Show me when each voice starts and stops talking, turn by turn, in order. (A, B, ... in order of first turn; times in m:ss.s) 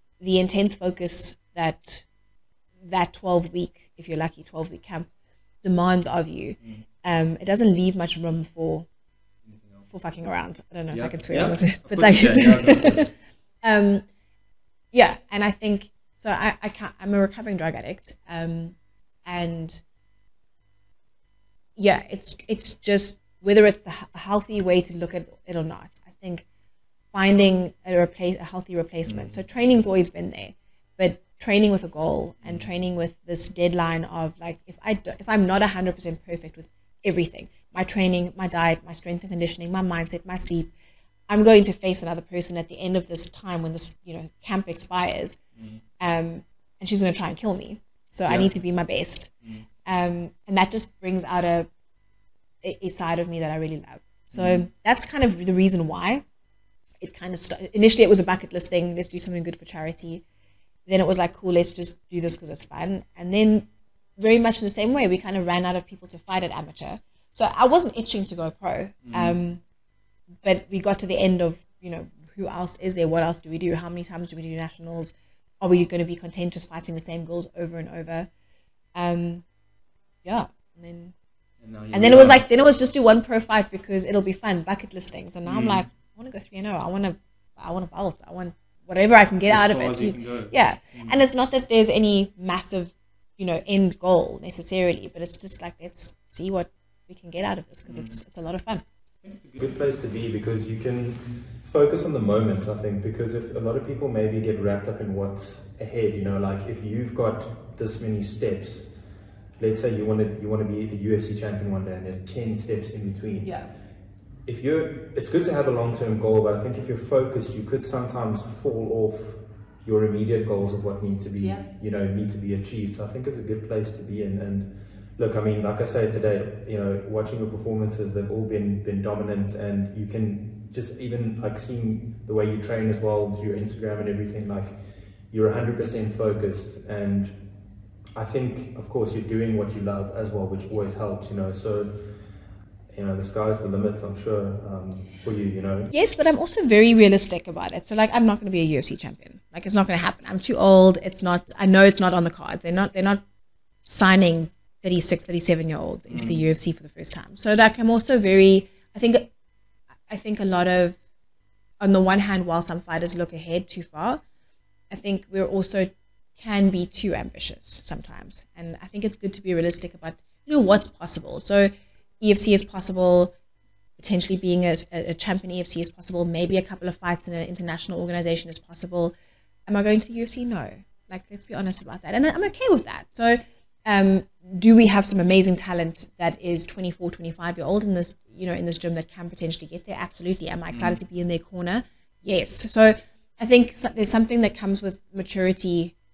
0:00.2-0:02.0 A
0:02.8-0:05.1 A
0:05.6-0:08.9 A
0:06.6-0:06.8 B
0:09.4-0:10.0 B
0:09.9-0:13.1 A
0:10.9-0:13.1 B
0:13.6-0:14.0 A
0:14.9-0:19.8 A
0:21.8-0:26.4 A
0:27.1-0:40.7 A
0:29.1-0:29.4 B
0:32.4-0:32.7 B
0:41.3-0:45.4 A
0:45.6-0:45.8 B
0:46.0-0:49.3 A
0:48.3-0:48.5 B
0:49.8-0:51.7 A
0:52.6-0:56.2 A
0:54.4-0:54.6 B
0:57.0-1:00.2 A
1:00.9-1:09.6 A
1:09.1-1:09.4 B
1:10.4-1:18.3 A
1:19.0-1:19.4 A
1:20.2-1:21.1 A
1:21.6-1:22.5 B
1:21.9-1:38.8 A
1:25.5-1:25.8 B
1:29.4-1:31.2 B
1:39.2-1:39.7 B
1:39.6-1:48.9 C
1:49.6-1:53.6 C
1:54.5-2:17.4 C
2:18.2-2:22.2 C
2:22.9-2:25.9 C
2:25.9-2:33.2 A
2:33.8-2:39.3 A
2:36.1-2:36.4 B
2:40.1-2:41.0 A
2:41.8-2:44.2 A
2:44.9-2:53.3 A
2:54.0-2:59.1 A
2:59.7-3:15.9 A